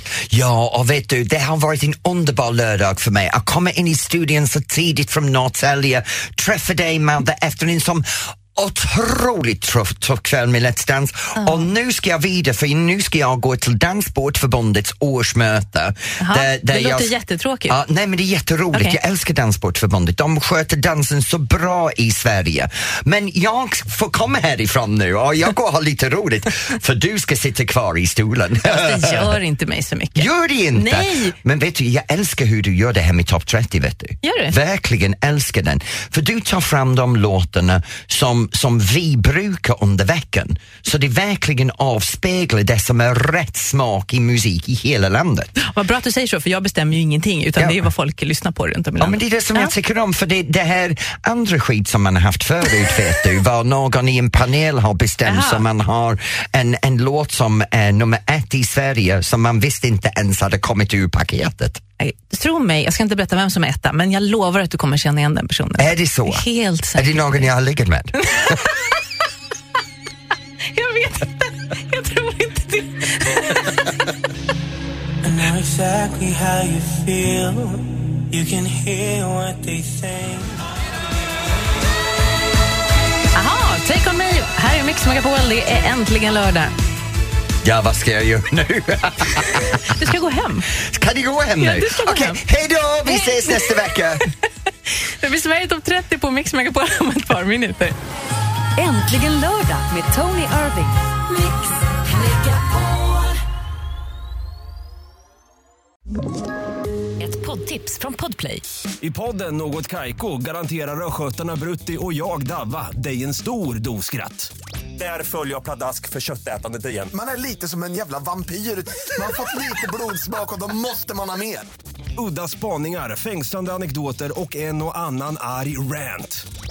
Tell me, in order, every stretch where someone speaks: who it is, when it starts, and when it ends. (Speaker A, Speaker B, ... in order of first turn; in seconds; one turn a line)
Speaker A: 0.3-17.1
Speaker B: 11.4-11.7
Speaker B: 16.2-17.8
Speaker A: 17.7-29.3
Speaker B: 18.7-19.0
Speaker B: 28.6-31.3
Speaker A: 30.1-45.5
Speaker B: 34.2-34.5
Speaker B: 45.6-49.7
Speaker A: 47.5-47.8
Speaker A: 49.0-61.8
Speaker B: 55.2-55.6
Speaker B: 62.0-67.5
Speaker A: 65.8-68.5
Speaker B: 70.7-73.9
Speaker C: 75.2-80.6
Speaker B: 83.3-86.7
Speaker A: 87.6-89.8
Speaker B: 89.9-90.7
Speaker A: 90.7-94.2
Speaker B: 91.6-92.4
Speaker B: 93.1-93.6
Speaker B: 94.9-97.9
Speaker D: 98.8-101.5
Speaker D: 102.1-103.2
Speaker D: 107.2-108.6
Speaker E: 109.0-117.1
Speaker F: 117.1-121.7
Speaker E: 122.2-126.4